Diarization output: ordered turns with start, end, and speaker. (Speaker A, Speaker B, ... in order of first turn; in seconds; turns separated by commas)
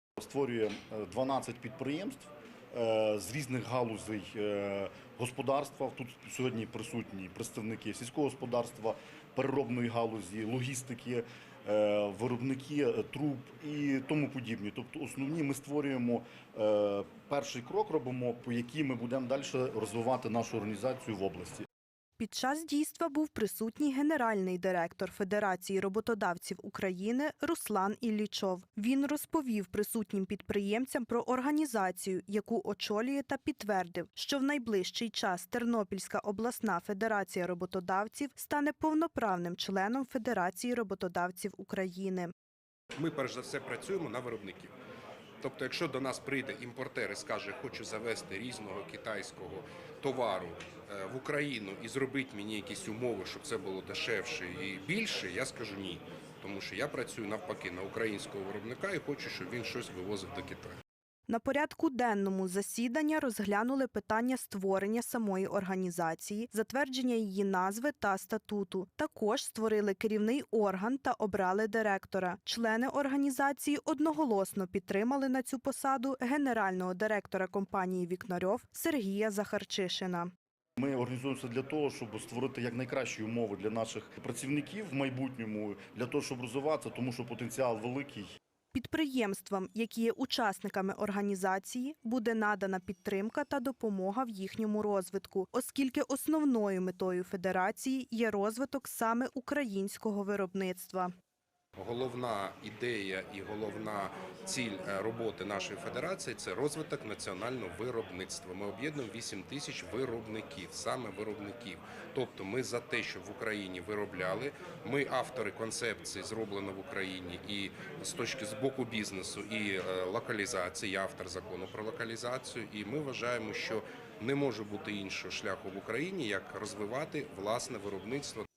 Speaker A: 0.2-21.6, Speaker B: 22.2-42.3, Speaker C: 43.0-44.7, Speaker C: 45.4-60.8, Speaker B: 61.3-80.3, Speaker A: 80.8-88.4, Speaker B: 88.7-101.1, Speaker C: 101.8-128.4